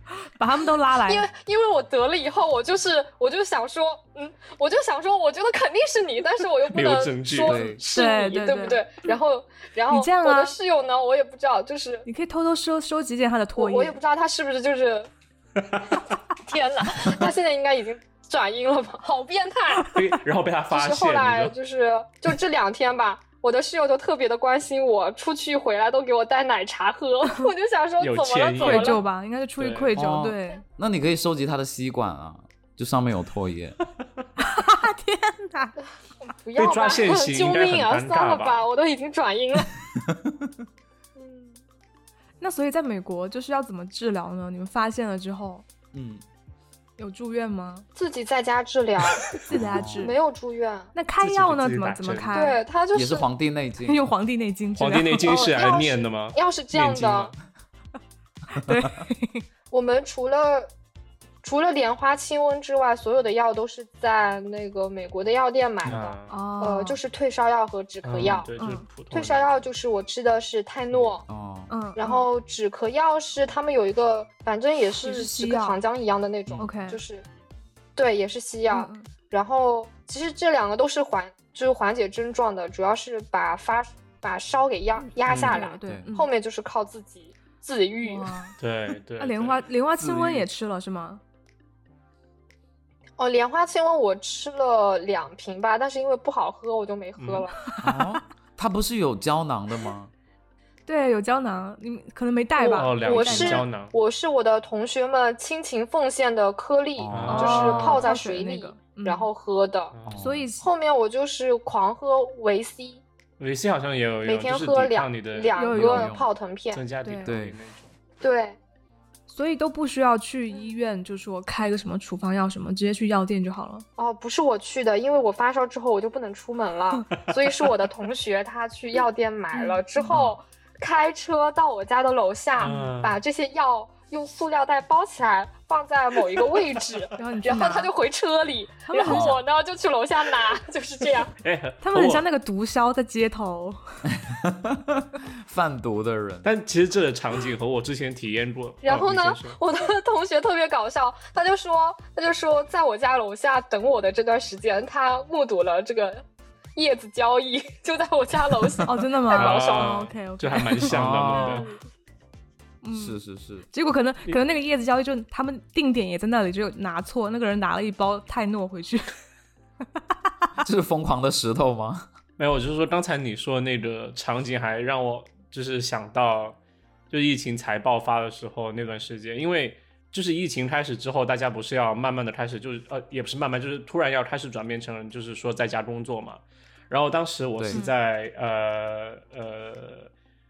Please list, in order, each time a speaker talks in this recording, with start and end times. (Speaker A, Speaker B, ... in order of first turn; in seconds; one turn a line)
Speaker A: 0.2-1.2
Speaker B: 1.1-12.1
Speaker C: 6.7-7.7
Speaker D: 7.4-7.8
Speaker A: 7.9-8.9
Speaker A: 9.9-10.5
Speaker A: 12.1-13.9
Speaker B: 13.6-15.1
Speaker B: 16.4-19.9
Speaker C: 19.9-21.5
Speaker B: 20.7-29.0
Speaker C: 28.0-29.0
Speaker A: 28.6-30.6
Speaker C: 29.6-30.0
Speaker D: 29.9-33.8
Speaker A: 34.4-35.8
Speaker B: 36.2-39.7
Speaker C: 36.5-38.6
Speaker D: 40.1-40.5
Speaker B: 41.2-41.6
Speaker A: 42.4-45.6
Speaker D: 45.9-46.2
Speaker A: 47.0-47.9
Speaker B: 48.0-50.9
Speaker A: 49.3-50.1
Speaker D: 49.5-50.1
Speaker A: 50.9-52.6
Speaker C: 51.2-52.4
Speaker B: 52.3-53.2
Speaker D: 52.9-54.0
Speaker A: 53.8-55.3
Speaker C: 54.8-57.3
Speaker B: 55.2-57.3
Speaker A: 58.6-59.4
Speaker B: 59.7-60.7
Speaker B: 61.4-68.5
Speaker C: 65.8-66.4
Speaker A: 66.3-67.0
Speaker C: 68.0-69.5
Speaker A: 68.6-68.8
Speaker B: 69.1-71.2
Speaker D: 71.3-71.7
Speaker A: 71.7-72.2
Speaker B: 72.0-77.2
Speaker A: 75.0-75.8
Speaker A: 76.6-77.0
Speaker B: 78.0-88.3
Speaker A: 78.7-79.0
Speaker A: 85.0-86.3
Speaker C: 85.3-85.6
Speaker A: 88.0-88.5
Speaker C: 88.6-89.7
Speaker A: 89.2-91.2
Speaker D: 90.0-90.5
Speaker B: 93.2-97.6
Speaker C: 97.2-97.4
Speaker A: 97.8-98.2
Speaker D: 97.8-100.1
Speaker A: 100.9-103.7
Speaker B: 102.6-109.9
Speaker C: 102.7-103.9
Speaker D: 107.0-107.6
Speaker C: 107.1-108.1
Speaker A: 107.3-109.3
Speaker C: 109.9-110.2
Speaker D: 110.1-110.5
Speaker A: 110.2-110.7
Speaker B: 110.6-113.0
Speaker C: 113.4-115.5
Speaker B: 114.2-116.8
Speaker A: 115.5-116.1
Speaker D: 115.7-116.3
Speaker C: 116.7-117.9
Speaker A: 117.0-117.3
Speaker D: 117.2-117.6
Speaker B: 118.2-118.6
Speaker A: 119.3-123.8
Speaker B: 124.0-141.3
Speaker A: 129.5-130.1
Speaker C: 130.1-130.4
Speaker C: 132.6-133.2
Speaker A: 137.2-137.9
Speaker A: 138.9-139.4
Speaker D: 139.0-139.4
Speaker C: 141.4-142.2
Speaker A: 141.8-143.8
Speaker D: 144.1-146.5
Speaker C: 146.4-149.6
Speaker B: 148.8-156.2
Speaker B: 156.8-160.0
Speaker A: 158.8-161.6
Speaker C: 159.3-161.7
Speaker D: 160.9-161.6
Speaker B: 161.4-161.8
Speaker A: 162.8-163.2
Speaker D: 162.9-163.7
Speaker A: 163.7-169.1
Speaker D: 170.6-172.1
Speaker C: 172.4-176.6
Speaker C: 177.1-190.1
Speaker D: 187.6-187.8
Speaker A: 187.7-187.9